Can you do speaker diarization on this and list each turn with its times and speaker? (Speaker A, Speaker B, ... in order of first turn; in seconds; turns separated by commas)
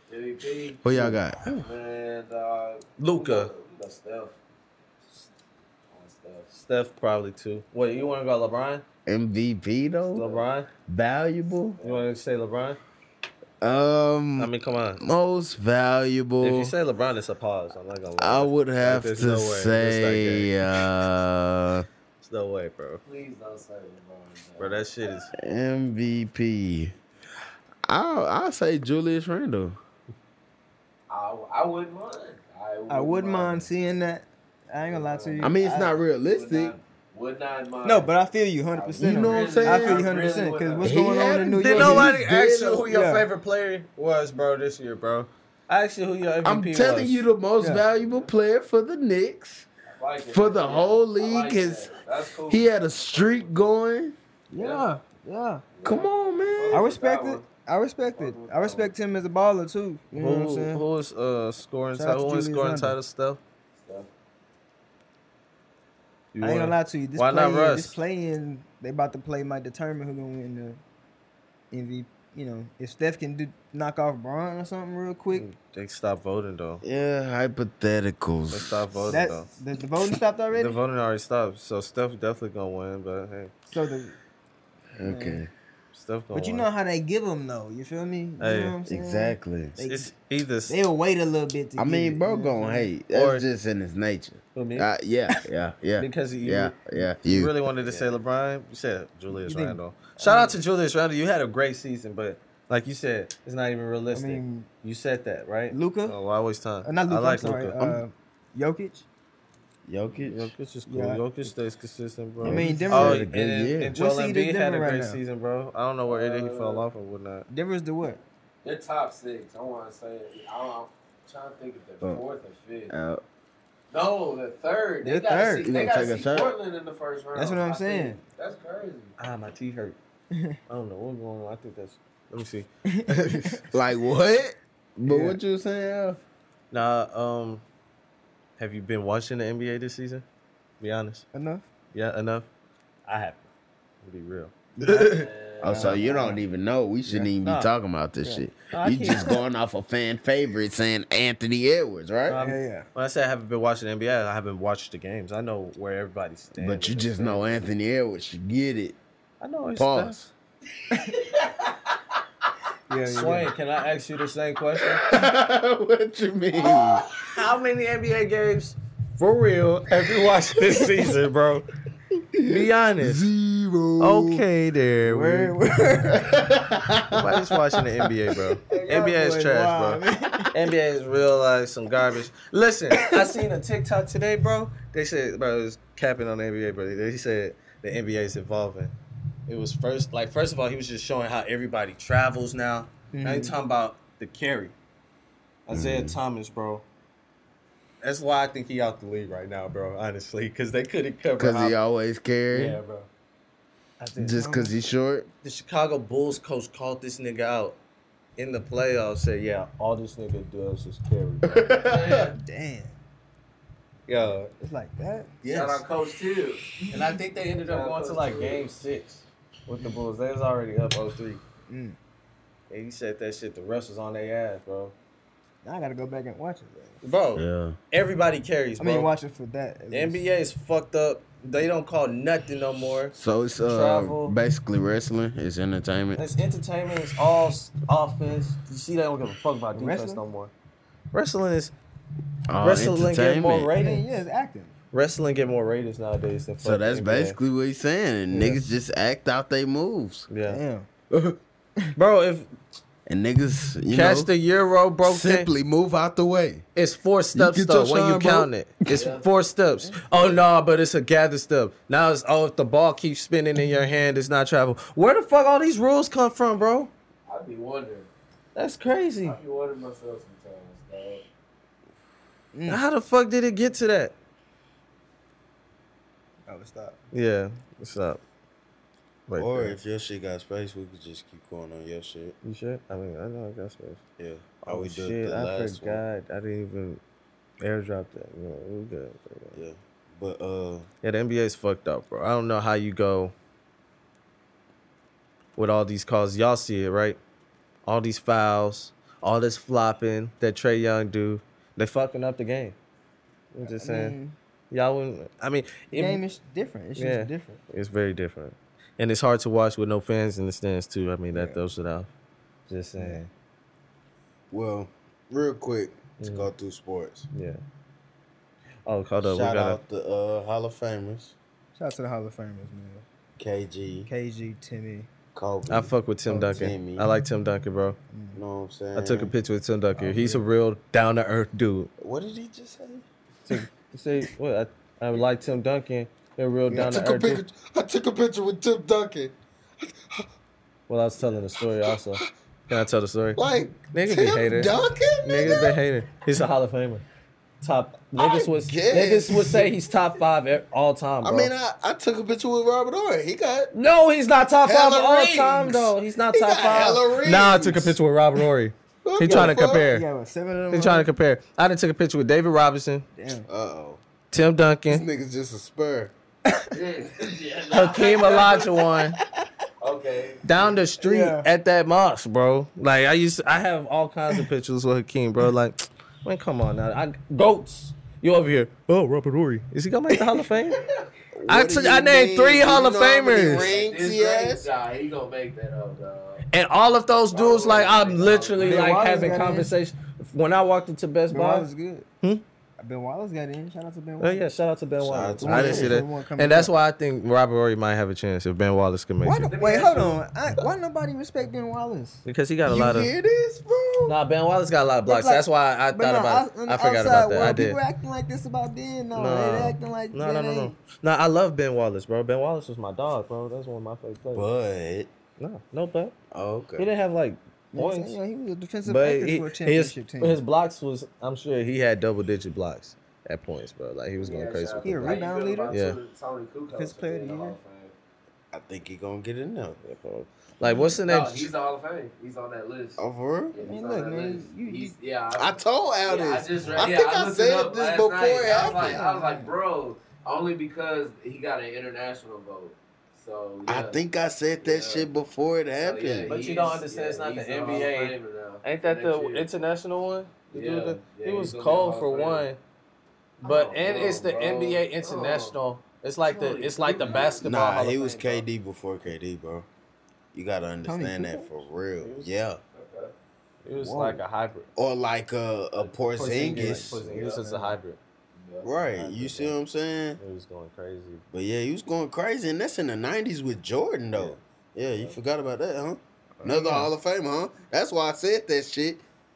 Speaker A: 0.1-4.4, Speaker B: 0.8-1.4, Speaker C: 3.0-3.5, Speaker A: 5.9-6.5, Speaker C: 6.5-8.8, Speaker B: 9.1-11.8, Speaker C: 10.1-10.7, Speaker A: 11.8-12.1, Speaker C: 11.8-12.8, Speaker B: 13.6-16.7, Speaker C: 14.4-15.0, Speaker C: 16.4-20.5, Speaker B: 18.2-21.9, Speaker C: 22.2-23.0, Speaker A: 23.1-24.8, Speaker C: 24.6-25.3, Speaker B: 25.3-26.9, Speaker B: 27.9-29.8, Speaker A: 31.1-33.7, Speaker D: 32.9-36.0, Speaker A: 34.9-35.5, Speaker B: 35.4-36.8, Speaker A: 36.3-38.1, Speaker D: 37.8-42.1, Speaker A: 38.7-41.1, Speaker B: 39.0-40.1, Speaker B: 40.8-42.9, Speaker C: 41.6-47.2, Speaker D: 42.9-43.3, Speaker B: 46.4-49.7, Speaker D: 47.6-47.9, Speaker A: 47.9-48.3, Speaker A: 49.9-53.6, Speaker B: 50.3-51.9, Speaker B: 52.5-54.1, Speaker D: 54.5-55.6, Speaker A: 54.6-54.9, Speaker A: 55.7-57.5, Speaker B: 55.8-56.9, Speaker D: 56.7-60.8, Speaker A: 58.1-58.9, Speaker C: 60.1-63.4, Speaker D: 61.9-63.0, Speaker A: 63.8-64.1, Speaker C: 66.3-68.0, Speaker D: 66.4-70.8, Speaker D: 71.7-75.5, Speaker C: 75.3-76.8, Speaker B: 76.8-79.2, Speaker C: 78.5-79.5, Speaker D: 79.1-80.8, Speaker C: 80.5-83.5, Speaker D: 83.7-84.2, Speaker B: 85.0-85.5, Speaker D: 85.1-85.4, Speaker C: 85.9-86.7, Speaker D: 86.3-90.1, Speaker C: 88.4-88.8, Speaker B: 88.9-89.8, Speaker C: 89.8-90.8, Speaker D: 90.7-92.9, Speaker B: 91.8-97.6, Speaker C: 93.1-93.4, Speaker C: 94.5-94.9, Speaker C: 96.0-107.8, Speaker D: 99.3-100.6, Speaker D: 104.1-104.7, Speaker D: 105.7-106.2, Speaker D: 106.8-109.0, Speaker B: 107.8-108.0, Speaker B: 109.9-110.5, Speaker C: 110.1-117.5, Speaker D: 110.9-111.2, Speaker D: 112.4-113.3, Speaker B: 112.4-113.9, Speaker D: 114.0-115.2, Speaker A: 116.1-116.9, Speaker D: 117.5-118.2, Speaker A: 118.6-122.9, Speaker B: 122.9-123.2, Speaker A: 123.9-129.2, Speaker D: 125.0-125.8, Speaker B: 125.6-126.6, Speaker D: 127.3-128.2, Speaker C: 129.2-130.0, Speaker D: 130.3-130.6, Speaker C: 130.7-133.7, Speaker D: 132.9-133.6, Speaker B: 133.7-136.2, Speaker D: 135.1-135.4, Speaker C: 136.7-137.6, Speaker C: 138.6-140.2, Speaker C: 140.8-141.3, Speaker D: 141.3-141.7, Speaker C: 141.9-142.5, Speaker C: 143.1-143.5, Speaker C: 144.0-145.2, Speaker D: 144.8-146.4, Speaker A: 145.1-146.1, Speaker B: 145.6-152.4, Speaker C: 147.4-147.7, Speaker C: 148.7-149.4, Speaker C: 152.3-157.6, Speaker D: 152.4-152.9, Speaker B: 156.6-158.9, Speaker C: 159.4-160.3, Speaker B: 159.7-160.3, Speaker D: 162.9-163.5, Speaker C: 163.1-165.0, Speaker B: 165.0-167.1, Speaker C: 167.1-171.7, Speaker B: 172.3-174.4, Speaker C: 172.4-173.3, Speaker C: 174.0-175.6, Speaker D: 175.0-176.4, Speaker B: 176.2-177.8, Speaker C: 177.1-188.9, Speaker D: 178.7-180.5, Speaker C: 189.5-194.7, Speaker D: 193.1-193.6, Speaker C: 195.7-196.8, Speaker B: 195.7-196.2, Speaker C: 198.0-201.8, Speaker B: 201.4-202.8, Speaker C: 202.5-203.1, Speaker C: 204.0-204.4, Speaker B: 204.2-205.3, Speaker D: 204.3-204.7, Speaker C: 205.4-207.8, Speaker C: 208.4-211.7, Speaker B: 211.4-212.3, Speaker A: 211.8-212.3, Speaker D: 212.3-213.0, Speaker C: 214.1-214.5, Speaker D: 214.5-215.3, Speaker B: 215.5-215.8, Speaker A: 215.5-216.6, Speaker C: 216.9-221.4, Speaker A: 217.7-218.6, Speaker D: 221.7-222.0, Speaker C: 222.7-224.9, Speaker D: 225.6-227.0, Speaker C: 227.0-229.1, Speaker B: 227.3-227.8, Speaker D: 228.8-230.2, Speaker C: 229.9-234.3, Speaker B: 233.1-236.2, Speaker C: 236.2-240.5, Speaker D: 239.7-240.2, Speaker C: 241.1-241.7, Speaker B: 242.5-243.7, Speaker C: 242.6-244.0, Speaker D: 243.7-244.7, Speaker C: 244.9-247.4, Speaker B: 246.6-250.3, Speaker C: 250.3-250.6, Speaker D: 250.4-250.9, Speaker C: 251.9-252.5, Speaker B: 253.1-254.3, Speaker C: 253.9-255.5, Speaker B: 255.0-256.6, Speaker C: 256.8-266.9, Speaker B: 257.3-259.0, Speaker A: 258.9-259.2, Speaker D: 259.8-260.3, Speaker A: 267.3-268.1, Speaker C: 268.6-269.4, Speaker A: 269.2-271.2, Speaker D: 272.5-272.8, Speaker C: 272.7-274.1, Speaker D: 276.5-277.0, Speaker C: 277.1-278.2, Speaker C: 279.3-279.8, Speaker B: 279.4-282.4, Speaker C: 282.4-284.0, Speaker B: 284.2-286.0, Speaker C: 284.6-287.0, Speaker C: 287.6-289.6, Speaker B: 289.5-290.9, Speaker C: 291.0-293.3, Speaker C: 295.6-297.2, Speaker C: 297.9-302.8, Speaker C: 303.5-304.1, Speaker D: 303.6-304.4, Speaker C: 304.7-306.2, Speaker D: 305.9-307.6, Speaker C: 306.9-312.1, Speaker D: 311.3-311.6, Speaker C: 312.7-313.3, Speaker B: 314.5-317.3, Speaker C: 316.2-316.5, Speaker C: 317.3-317.6, Speaker C: 318.9-319.8, Speaker B: 319.2-321.4, Speaker D: 321.7-323.1, Speaker B: 323.4-324.1, Speaker D: 324.1-325.1, Speaker B: 325.4-327.1, Speaker C: 325.7-328.0, Speaker D: 328.1-328.4, Speaker B: 328.4-329.3, Speaker C: 328.9-331.9, Speaker D: 329.9-330.4, Speaker B: 332.0-333.1, Speaker C: 333.4-337.4, Speaker B: 336.7-340.2, Speaker C: 340.9-347.0, Speaker B: 341.9-342.3, Speaker B: 343.4-345.8, Speaker C: 347.6-351.5, Speaker B: 348.1-349.8, Speaker B: 351.2-353.7, Speaker C: 353.7-360.1, Speaker B: 354.6-358.0, Speaker B: 359.1-359.9, Speaker D: 359.2-361.1, Speaker C: 360.7-363.1, Speaker D: 363.1-363.5, Speaker B: 363.5-364.0, Speaker C: 364.3-365.1, Speaker B: 364.9-366.1, Speaker A: 366.7-368.7, Speaker C: 367.7-369.2, Speaker A: 369.8-370.8, Speaker C: 370.4-380.8, Speaker D: 371.0-371.5, Speaker B: 381.3-384.7, Speaker C: 381.5-383.7, Speaker A: 383.4-386.4, Speaker C: 386.5-391.7, Speaker A: 387.3-389.4, Speaker D: 388.6-389.7, Speaker D: 391.3-392.1, Speaker D: 392.8-394.4, Speaker C: 394.2-399.5, Speaker B: 395.0-396.0, Speaker D: 395.4-396.7, Speaker D: 399.2-402.2, Speaker A: 399.5-400.2, Speaker C: 402.2-403.1, Speaker B: 402.6-404.2, Speaker C: 404.1-407.8, Speaker D: 405.1-410.8, Speaker C: 409.1-414.5, Speaker B: 414.3-415.1, Speaker C: 415.4-416.1, Speaker B: 416.3-416.9, Speaker C: 416.8-418.2, Speaker D: 417.7-420.4, Speaker C: 418.9-425.1, Speaker A: 424.2-427.9, Speaker D: 424.8-425.8, Speaker C: 425.7-426.0, Speaker D: 426.7-427.6, Speaker B: 428.5-429.8, Speaker C: 429.8-431.5, Speaker D: 430.6-430.9, Speaker A: 431.1-444.0, Speaker B: 433.0-433.5, Speaker D: 433.6-434.9, Speaker B: 435.4-439.1, Speaker D: 438.6-439.5, Speaker B: 443.6-446.4, Speaker A: 444.6-445.1, Speaker A: 445.8-449.5, Speaker C: 446.3-452.6, Speaker A: 450.5-452.5, Speaker A: 453.4-455.6, Speaker C: 453.4-458.2, Speaker A: 456.3-458.4, Speaker B: 457.4-459.7, Speaker B: 460.3-462.6, Speaker D: 460.9-461.5, Speaker C: 462.0-462.3, Speaker A: 462.7-463.1, Speaker C: 463.6-464.7, Speaker B: 463.8-464.2, Speaker B: 464.8-467.1, Speaker C: 466.1-468.0, Speaker D: 466.6-467.8, Speaker A: 467.1-467.4, Speaker A: 468.4-469.3, Speaker B: 468.6-470.2, Speaker C: 469.2-469.5, Speaker C: 470.2-471.2, Speaker B: 471.3-479.0, Speaker D: 476.4-476.9